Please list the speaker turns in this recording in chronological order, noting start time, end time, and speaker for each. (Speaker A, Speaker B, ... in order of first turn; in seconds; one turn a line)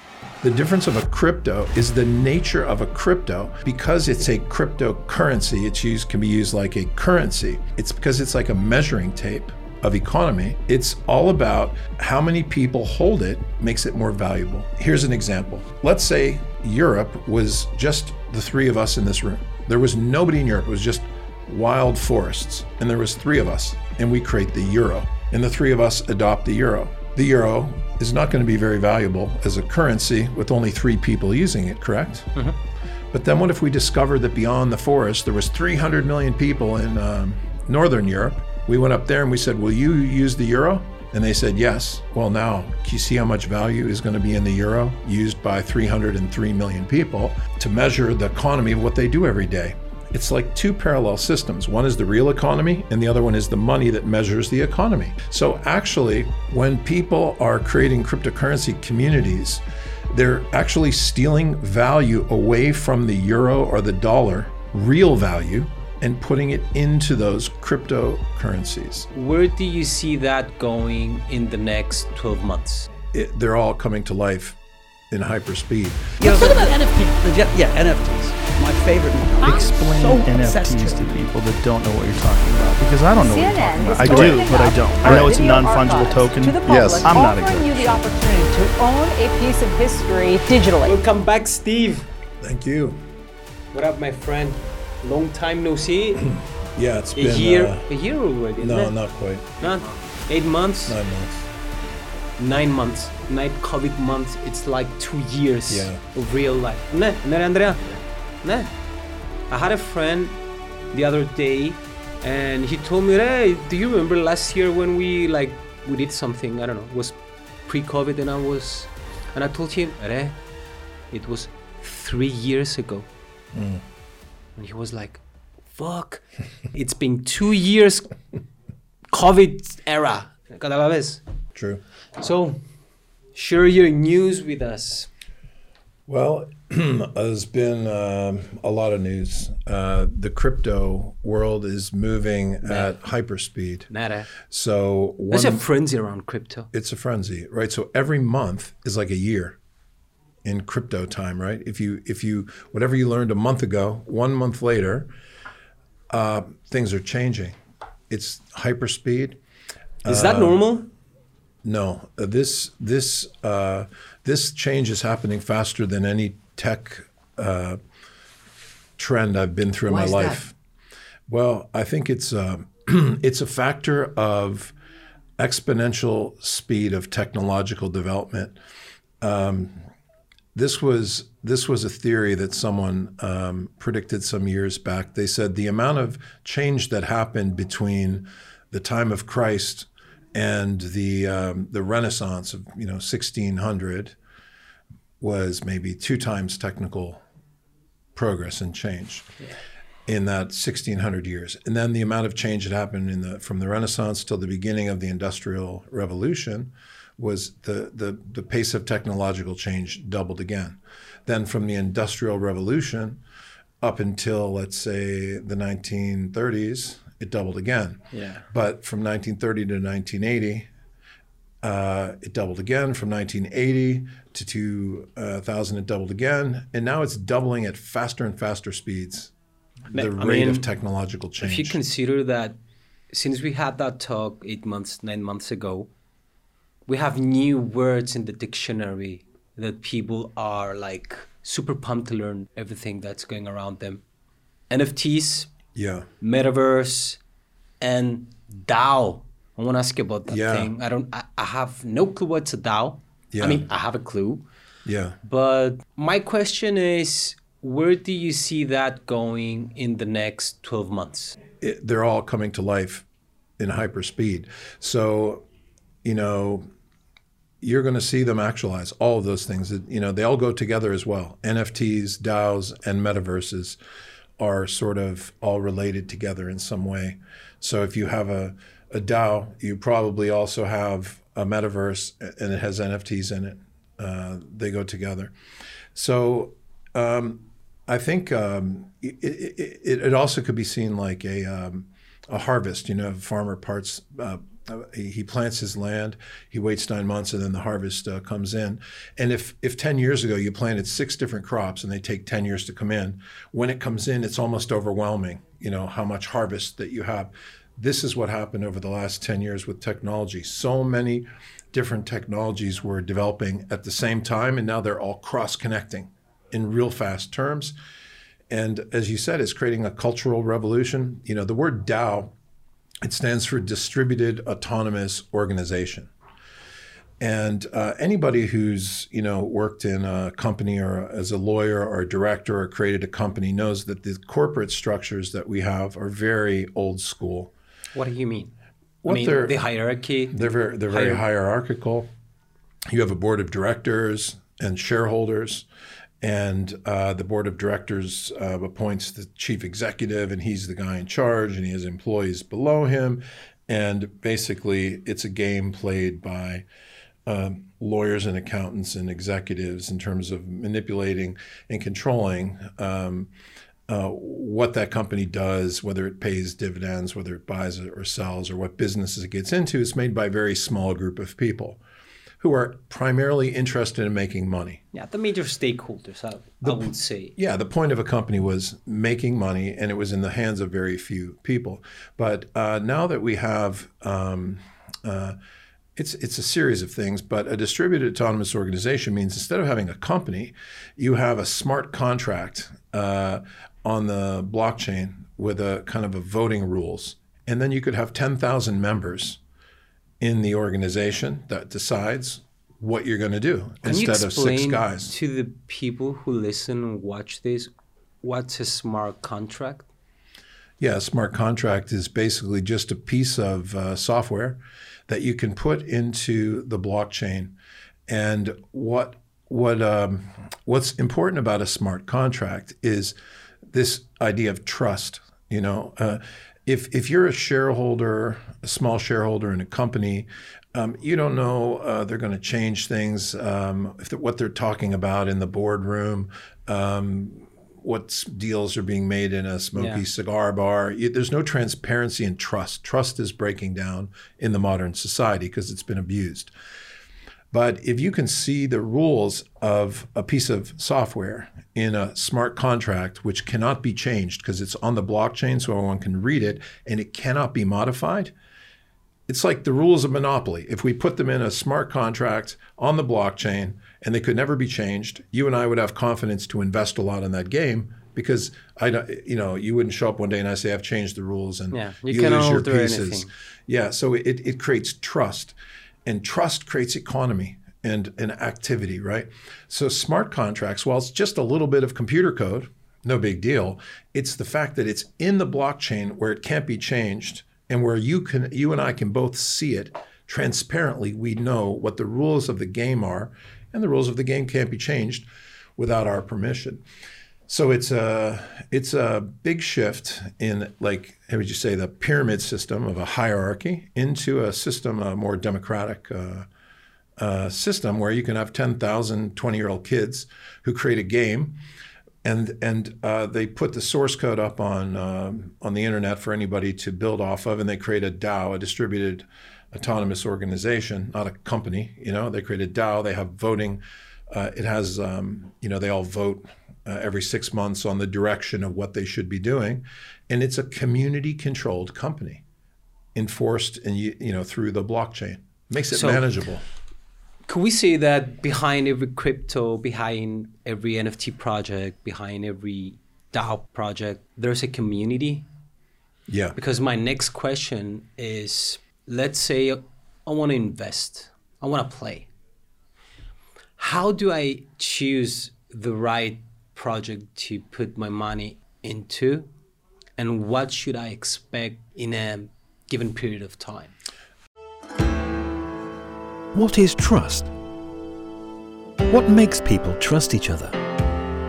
Speaker A: 0.4-32.4
Speaker A: 33.1-69.1
Speaker B: 69.1-72.9
Speaker A: 73.1-74.6
Speaker A: 75.1-76.6
Speaker C: 76.2-81.1
Speaker D: 79.4-88.0
Speaker E: 83.2-91.0
Speaker C: 84.0-84.3
Speaker B: 90.8-92.1
Speaker A: 92.4-93.0
Speaker B: 93.7-96.3
Speaker A: 96.2-97.9
Speaker B: 97.1-98.9
Speaker A: 98.6-99.6
Speaker B: 99.6-101.0
Speaker A: 100.9-101.5
Speaker B: 102.4-108.7
Speaker A: 105.7-106.0
Speaker B: 109.5-110.4
Speaker B: 110.9-120.4
Speaker B: 121.1-123.1
Speaker A: 123.5-123.8
Speaker B: 124.5-128.1
Speaker B: 129.1-131.2
Speaker A: 131.5-131.8
Speaker B: 132.2-132.6
Speaker B: 133.3-135.1
Speaker A: 136.1-143.9
Speaker B: 142.6-143.0
Speaker B: 143.9-144.3
Speaker A: 144.4-145.7
Speaker B: 145.3-146.7
Speaker A: 146.7-149.6
Speaker A: 150.4-155.1
Speaker A: 156.1-157.6
Speaker A: 158.1-159.4
Speaker A: 160.0-160.6
Speaker B: 160.0-160.9
Speaker A: 161.6-167.8
Speaker A: 169.0-170.5
Speaker B: 170.1-170.3
Speaker A: 171.3-174.7
Speaker A: 175.4-178.6
Speaker A: 179.2-179.8
Speaker A: 180.5-194.2
Speaker A: 195.2-197.2
Speaker A: 198.2-199.3
Speaker A: 200.1-213.2
Speaker A: 213.8-220.7
Speaker B: 218.1-218.4
Speaker A: 221.6-229.3
Speaker A: 229.9-231.8
Speaker B: 229.9-230.7
Speaker B: 231.4-232.6
Speaker B: 233.1-235.9
Speaker B: 236.8-244.0
Speaker B: 244.7-245.5
Speaker A: 245.7-246.1
Speaker B: 246.2-247.2
Speaker B: 247.8-254.4
Speaker A: 250.3-250.7
Speaker A: 253.3-253.6
Speaker A: 254.8-255.2
Speaker B: 255.2-261.4
Speaker A: 261.6-263.1
Speaker A: 263.6-265.4
Speaker A: 266.0-266.6
Speaker A: 267.6-273.8
Speaker A: 274.4-285.3
Speaker A: 285.9-317.7
Speaker A: 318.5-322.3
Speaker A: 323.0-326.1
Speaker A: 327.2-337.5
Speaker B: 337.9-338.5
Speaker A: 339.0-339.6
Speaker B: 339.1-341.2
Speaker A: 340.3-342.1
Speaker A: 342.9-345.6
Speaker A: 346.2-356.6
Speaker A: 357.2-363.3
Speaker A: 363.9-371.8
Speaker A: 372.4-374.8
Speaker B: 374.9-377.4
Speaker A: 376.6-385.4
Speaker A: 385.9-399.4
Speaker A: 400.2-405.1
Speaker B: 403.8-409.9
Speaker A: 410.8-417.5
Speaker A: 418.1-423.1
Speaker A: 423.7-446.5
Speaker B: 439.8-440.0
Speaker A: 447.5-458.3
Speaker A: 459.3-496.8
Speaker B: 471.7-473.3
Speaker A: 497.5-506.5
Speaker A: 507.2-511.6
Speaker A: 512.2-532.4
Speaker A: 533.1-536.6
Speaker B: 535.9-536.2
Speaker B: 537.5-545.5
Speaker A: 546.3-546.6
Speaker B: 546.5-552.3
Speaker B: 553.8-559.5
Speaker B: 560.2-563.9
Speaker F: 566.5-567.5
Speaker F: 569.1-570.8